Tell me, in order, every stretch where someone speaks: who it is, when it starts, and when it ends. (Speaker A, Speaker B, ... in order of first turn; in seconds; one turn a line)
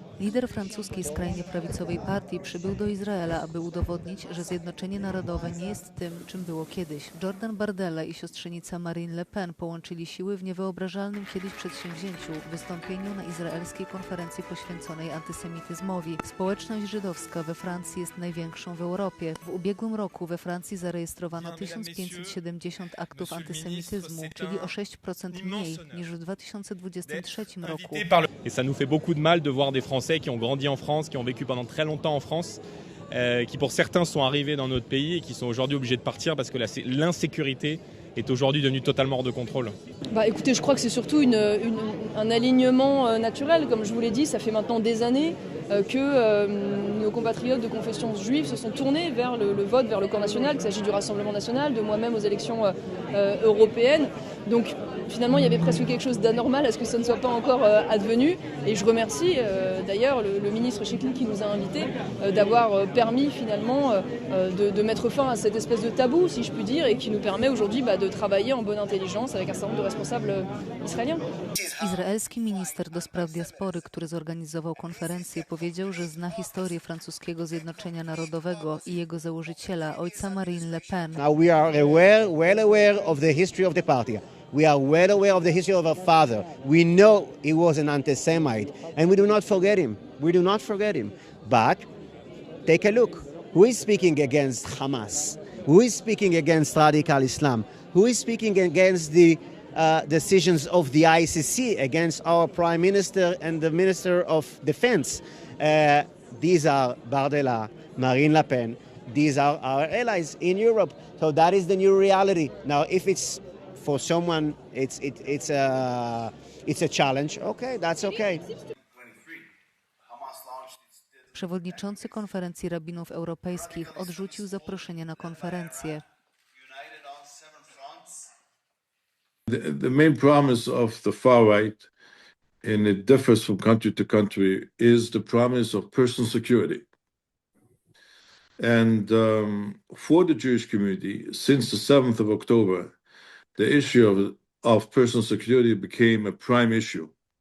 Speaker A: 0.2-28.1
Speaker B: 21.4-22.4
Speaker B: 23.1-24.7
Speaker B: 25.3-26.1
Speaker B: 27.1-39.8
Speaker C: 40.1-71.2
Speaker A: 71.8-81.2
Speaker D: 81.2-91.9
Speaker D: 92.7-118.5
Speaker A: 121.3-126.0
Speaker E: 129.5-131.9
Speaker E: 132.6-136.9
Speaker E: 138.6-143.0
Speaker E: 143.6-147.1